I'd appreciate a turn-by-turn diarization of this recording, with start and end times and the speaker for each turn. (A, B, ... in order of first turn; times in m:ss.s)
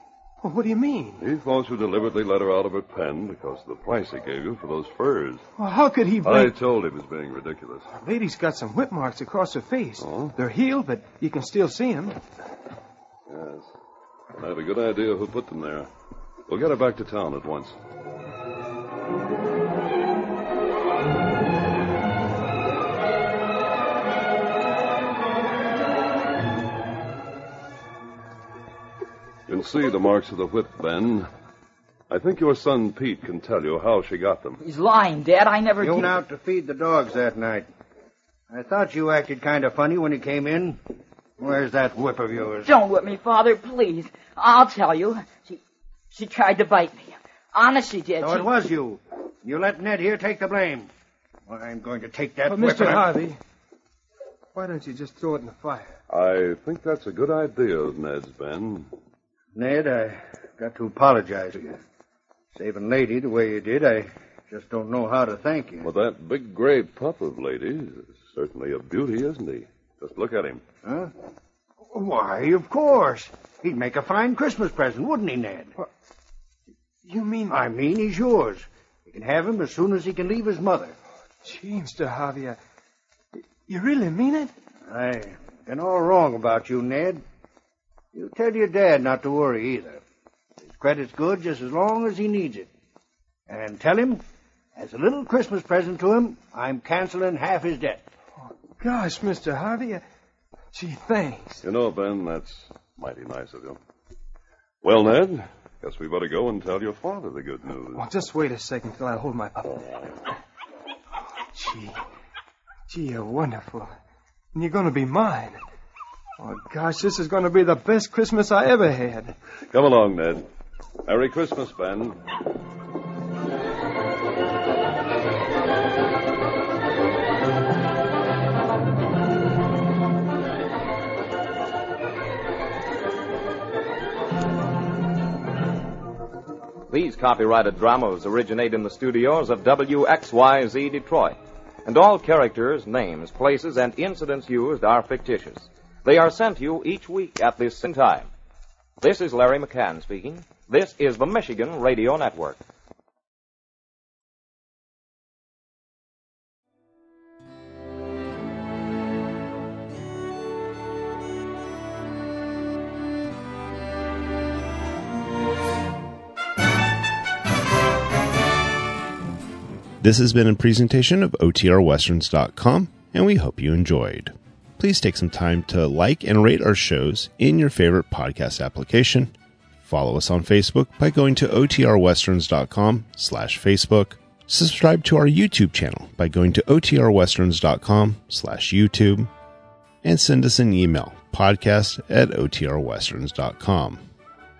0:00.4-0:01.2 A
0:01.2-0:05.4 B
0:05.6-0:06.6 A
0:06.2-0:07.8 B
0:07.9-0:12.2 A
0:10.0-0:10.3 B
0:13.3-0:13.7 B
0:14.4-0:15.9 B
0:16.5-0:17.8 B
0:29.5-0:31.3 B
0:32.1-0:34.6 B
0:34.6-0:36.2 C
0:35.8-0:37.7 D
0:38.5-0:40.8 D
0:41.4-0:42.7 D
0:42.6-0:45.6 C
0:46.1-0:48.5 C
0:48.2-0:50.9 D
0:51.5-0:53.1 D
0:52.4-0:53.4 A
0:54.5-0:55.9 A
0:56.1-0:58.9 B
0:59.5-1:01.8 D
1:02.5-1:05.9 D
1:05.8-1:10.6 B
1:10.8-1:11.1 D
1:11.9-1:15.7 D
1:17.0-1:17.6 A
1:17.5-1:20.9 D
1:21.4-1:22.6 A
1:23.3-1:24.5 A
1:24.9-1:27.2 D
1:28.1-1:30.0 D
1:30.6-1:32.7 D
1:33.5-1:34.2 D
1:34.8-1:38.0 D
1:38.4-1:40.0 A
1:40.7-1:41.6 A
1:41.6-1:43.8 B
1:44.8-1:48.0 B
1:47.9-1:49.8 A
1:51.5-1:52.0 A
1:52.9-1:53.9 A
1:54.5-1:55.6 A
1:56.4-1:59.3 A
1:59.7-2:00.4 B
2:01.1-2:02.2 B
2:16.9-2:28.3 E
2:29.0-2:32.6 E
2:50.0-2:59.3 F
2:59.8-3:09.3 F
3:10.0-3:14.0 F